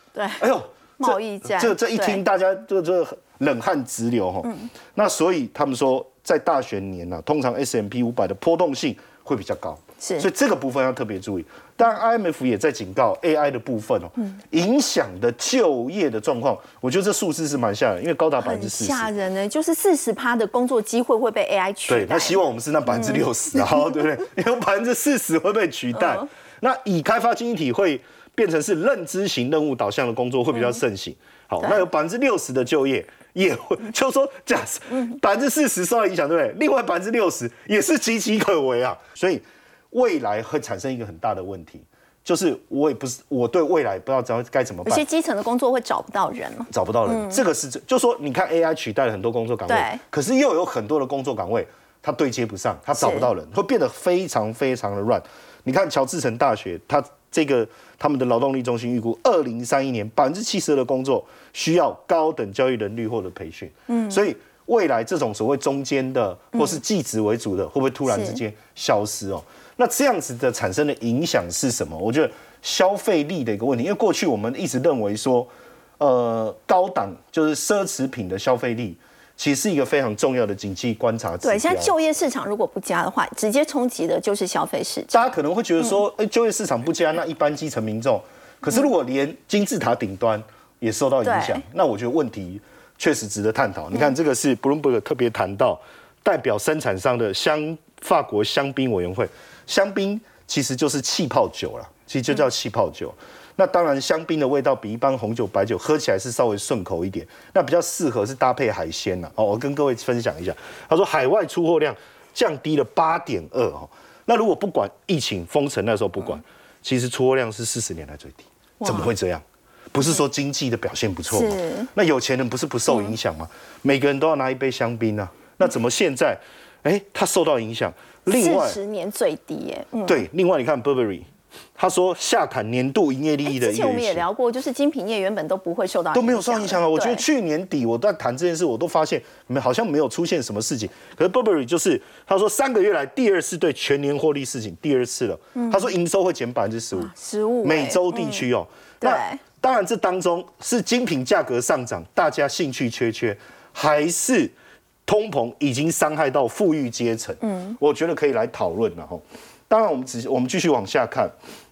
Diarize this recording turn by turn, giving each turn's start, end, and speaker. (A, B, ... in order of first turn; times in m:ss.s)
0:00.1-0:00.4 A
0:00.4-0:19.1 B
0:01.0-0:02.2 A
0:10.0-0:10.3 A
0:18.4-0:23.2 A
0:21.9-0:45.0 B
0:25.9-0:26.2 A
0:44.8-0:47.4 A
0:46.7-1:21.9 B
0:49.7-0:50.0 A
0:53.0-0:53.3 A
1:03.9-1:04.2 A
1:06.5-1:06.8 A
1:08.1-1:08.4 A
1:21.4-1:25.2 A
1:25.1-2:08.8 B
1:31.2-1:31.6 A
1:58.8-1:59.1 A
2:01.3-2:01.9 A
2:08.3-2:10.2 A
2:10.0-2:14.2 B
2:13.4-2:17.2 A
2:16.1-2:27.1 B
2:25.6-2:25.9 A
2:26.9-2:28.4 A
2:27.6-2:34.5 B
2:29.0-2:29.4 A
2:35.0-2:41.3 B
2:37.4-2:37.8 A